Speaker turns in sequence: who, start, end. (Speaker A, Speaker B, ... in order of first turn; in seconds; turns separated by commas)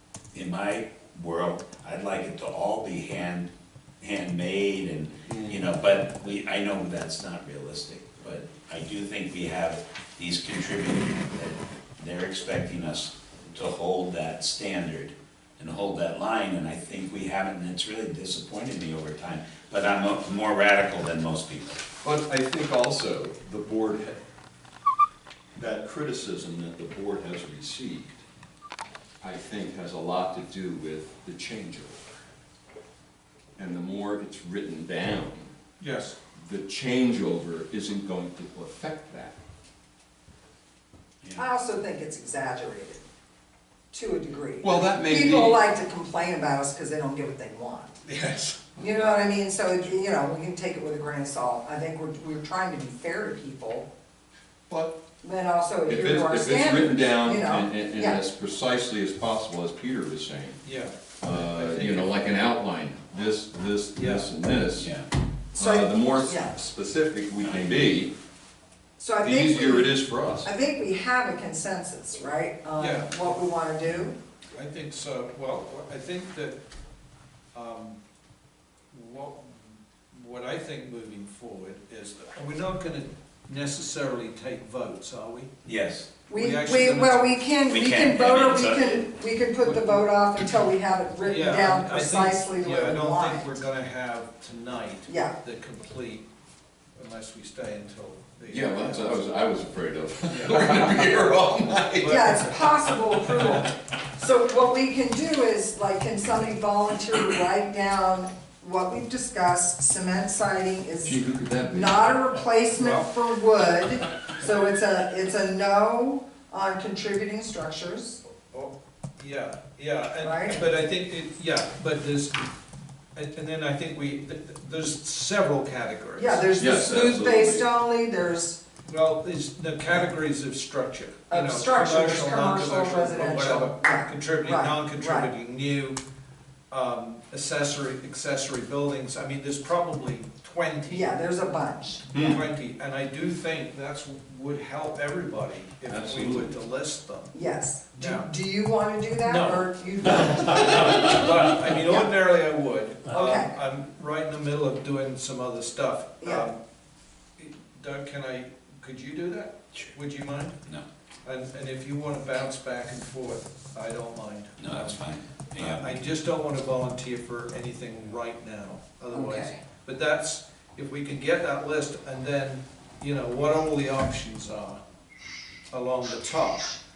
Speaker A: 0.3-21.9, Speaker B: 5.3-5.7, Speaker B: 22.0-24.2, Speaker B: 25.6-28.2, Speaker B: 29.2-32.2, Speaker B: 33.5-35.5, Speaker C: 35.8-36.2, Speaker B: 36.4-39.4, Speaker D: 41.4-43.0, Speaker D: 43.9-48.0, Speaker B: 44.6-45.6, Speaker C: 48.0-48.8, Speaker D: 48.8-53.9, Speaker B: 54.7-55.0, Speaker D: 55.2-58.2, Speaker B: 55.8-60.6, Speaker C: 60.6-62.1, Speaker B: 61.2-64.9, Speaker C: 63.9-64.3, Speaker A: 64.8-65.1, Speaker D: 65.5-66.5, Speaker B: 65.5-68.1, Speaker D: 69.0-74.2, Speaker B: 69.2-70.5, Speaker C: 72.8-73.4, Speaker C: 74.5-76.6, Speaker C: 77.5-78.0, Speaker C: 78.9-85.5, Speaker A: 85.6-86.1, Speaker D: 86.3-93.6, Speaker C: 86.3-87.3, Speaker A: 87.7-89.0, Speaker C: 89.6-90.1, Speaker C: 91.2-96.2, Speaker D: 95.1-95.3, Speaker C: 97.0-99.2, Speaker B: 98.5-102.5, Speaker C: 100.3-101.0, Speaker C: 101.8-102.7, Speaker D: 102.0-118.2, Speaker B: 111.0-112.2, Speaker C: 118.5-122.4, Speaker D: 120.2-120.6, Speaker C: 123.1-126.5, Speaker D: 126.2-128.6, Speaker B: 126.5-127.7, Speaker C: 128.8-136.0, Speaker D: 131.3-135.3, Speaker C: 136.7-141.2, Speaker D: 140.9-142.4, Speaker B: 142.1-142.4, Speaker C: 142.1-147.4, Speaker B: 145.8-146.5, Speaker D: 147.3-152.1, Speaker C: 147.9-148.3, Speaker C: 149.2-156.6, Speaker D: 153.1-153.5, Speaker D: 156.2-156.5, Speaker C: 157.4-160.6, Speaker C: 161.2-174.8, Speaker A: 164.6-166.0, Speaker D: 169.1-169.6, Speaker C: 175.7-176.7